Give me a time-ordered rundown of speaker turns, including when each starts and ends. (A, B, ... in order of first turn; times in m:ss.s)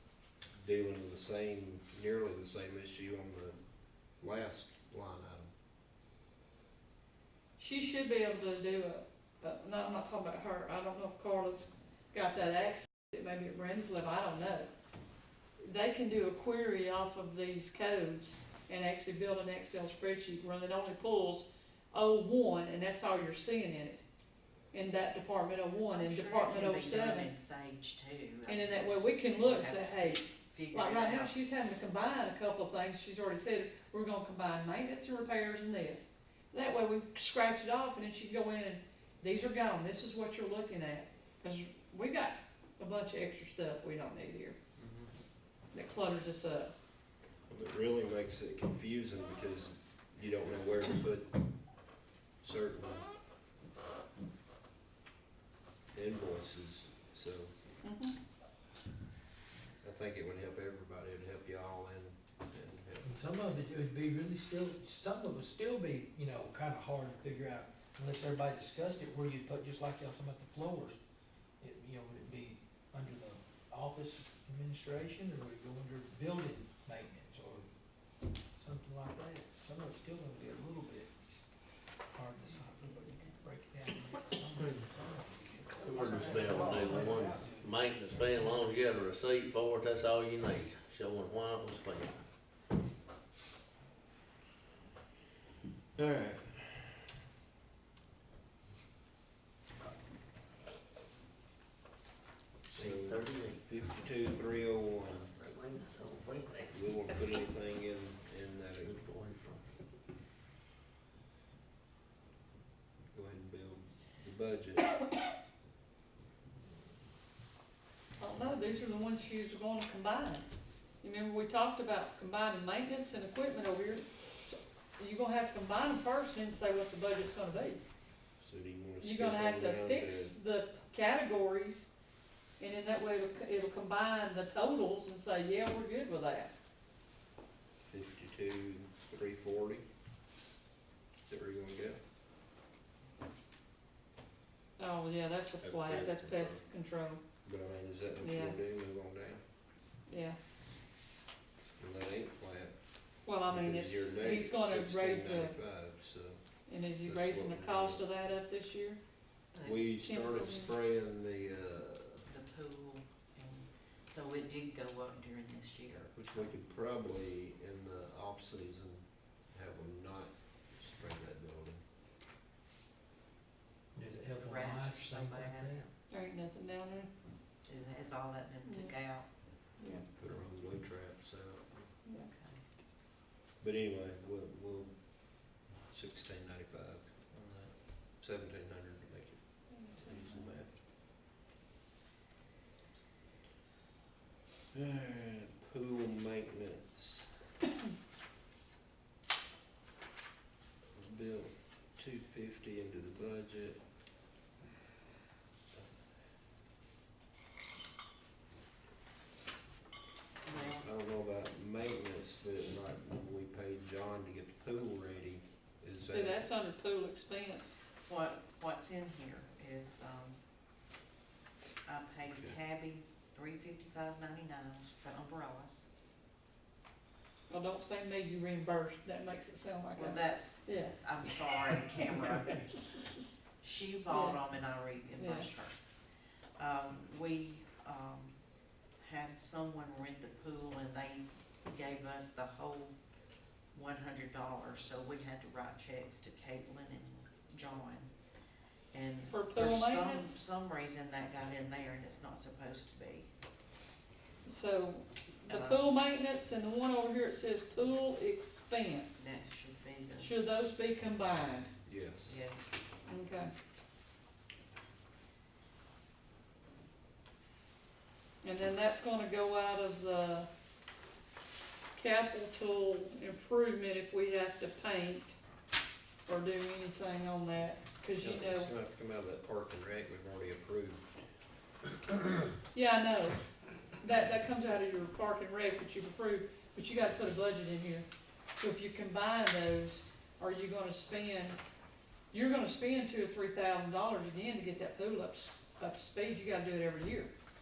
0:00.6-0:03.6 A
0:04.2-0:05.5 A
0:07.6-0:14.7 B
0:15.6-0:24.0 B
0:24.7-0:27.3 B
0:25.9-0:31.3 C
0:28.5-0:44.6 B
0:44.8-0:45.1 A
0:45.7-0:46.7 B
0:47.5-0:51.3 A
0:52.4-0:53.1 A
0:55.9-0:57.5 A
0:57.8-0:58.1 B
0:59.8-1:03.2 A
1:03.0-1:11.0 D
1:11.6-1:17.7 D
1:18.6-1:21.2 D
1:22.1-1:28.7 D
1:22.5-1:23.4 C
1:25.8-1:32.2 E
1:36.0-1:36.9 A
1:42.7-1:43.6 E
1:42.7-1:45.3 A
1:45.3-1:46.9 E
1:46.7-1:49.0 A
1:48.8-1:49.6 E
1:53.1-1:54.9 A
1:58.2-2:00.5 B
2:01.0-2:07.8 B
2:08.4-2:10.4 A
2:09.0-2:11.9 B
2:12.6-2:16.5 B
2:17.9-2:19.8 A
2:21.3-2:22.0 A
2:24.8-2:27.2 B
2:25.6-2:26.6 A
2:27.4-2:29.4 A
2:28.2-2:28.6 B
2:30.1-2:30.4 B
2:31.8-2:32.8 A
2:33.2-2:35.6 B
2:33.4-2:36.4 A
2:36.7-2:39.0 B
2:37.0-2:38.1 A
2:39.5-2:39.9 C
2:39.6-2:42.3 A
2:40.0-2:40.7 B
2:42.3-2:46.5 C
2:46.1-2:51.8 A
2:54.0-2:55.9 D
2:54.4-2:55.8 C
2:56.1-2:57.1 B
2:57.7-2:59.3 C
2:58.6-2:59.0 B
2:59.8-3:00.0 B
2:59.9-3:01.8 A
3:02.3-3:02.6 C
3:03.6-3:10.7 A
3:09.7-3:10.5 B
3:14.7-3:17.3 A
3:21.0-3:23.8 A
3:30.4-3:30.8 C
3:30.7-3:36.5 A
3:36.0-3:37.8 B
3:38.1-3:40.4 C
3:41.9-3:45.9 C
3:47.5-3:51.0 B
3:50.0-3:52.8 C
3:51.5-3:52.0 B
3:53.6-3:55.8 C
3:54.1-3:54.4 B
3:55.2-3:55.5 B
3:56.6-3:58.4 C
3:59.0-4:03.0 C
4:03.7-4:08.1 C
4:08.9-4:13.3 C
4:09.3-4:10.4 B
4:14.4-4:19.3 B
4:15.5-4:15.9 C
4:19.2-4:20.4 C
4:20.2-4:21.7 B
4:21.8-4:22.4 A
4:22.3-4:22.9 C
4:23.1-4:23.5 B
4:28.4-4:30.5 B
4:32.0-4:35.4 B
4:36.3-4:38.7 B
4:38.2-4:41.2 A
4:42.7-4:43.4 B
4:44.0-4:51.6 B
4:52.3-4:57.3 B